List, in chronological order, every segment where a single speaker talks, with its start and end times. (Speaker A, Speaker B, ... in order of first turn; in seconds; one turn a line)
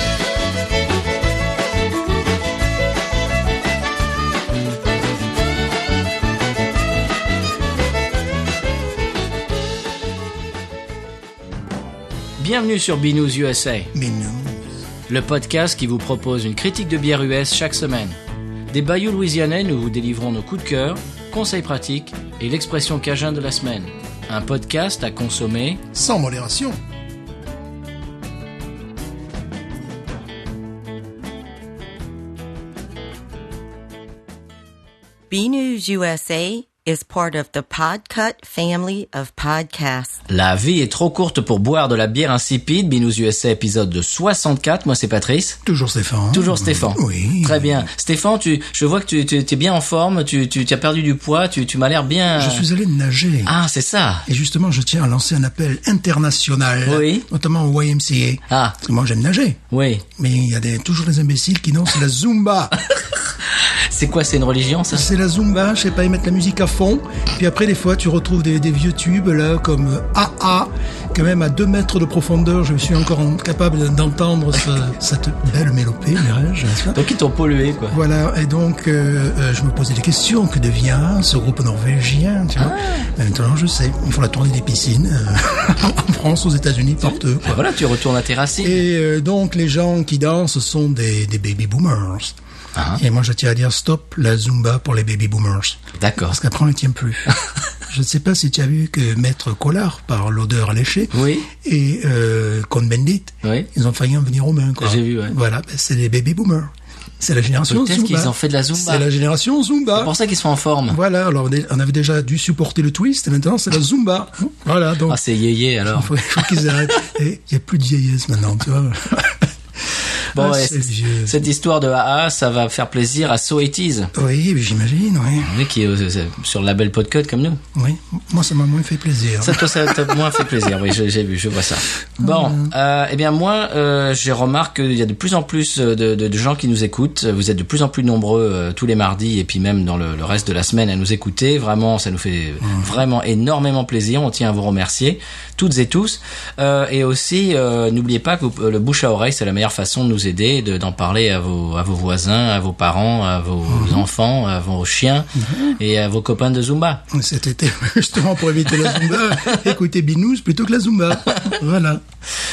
Speaker A: 12.4-13.9
Speaker B: 13.9-14.6
Speaker A: 15.1-18.2
Speaker A: 18.7-25.8
Speaker B: 25.9-26.8
Speaker C: 35.3-40.2
Speaker A: 40.3-45.6
Speaker B: 45.7-47.9
Speaker A: 46.3-52.6
Speaker B: 52.3-53.5
Speaker A: 53.5-54.3
Speaker B: 54.3-59.6
Speaker A: 56.9-57.3
Speaker A: 58.5-58.8
Speaker A: 59.7-60.1
Speaker B: 60.2-62.8
Speaker A: 63.5-65.1
Speaker B: 64.9-77.0
Speaker A: 76.9-78.0
Speaker B: 77.9-87.8
Speaker A: 82.6-83.1
Speaker A: 87.0-88.8
Speaker B: 88.6-92.4
Speaker A: 92.8-93.0
Speaker B: 93.0-97.3
Speaker A: 96.0-96.4
Speaker B: 97.9-110.1
Speaker A: 101.1-101.5
Speaker A: 103.4-103.7
Speaker A: 104.8-105.4
Speaker A: 107.7-109.1
Speaker A: 110.0-111.0
Speaker B: 110.9-115.2
Speaker A: 115.1-116.8
Speaker B: 115.9-119.5
Speaker A: 120.3-124.1
Speaker B: 120.3-121.4
Speaker B: 124.1-125.5
Speaker A: 125.5-127.6
Speaker B: 127.8-130.4
Speaker A: 129.4-157.0
Speaker B: 132.2-132.7
Speaker B: 142.6-142.9
Speaker B: 153.7-154.1
Speaker B: 155.4-155.8
Speaker B: 157.1-162.0
Speaker A: 158.8-159.7
Speaker A: 161.3-161.6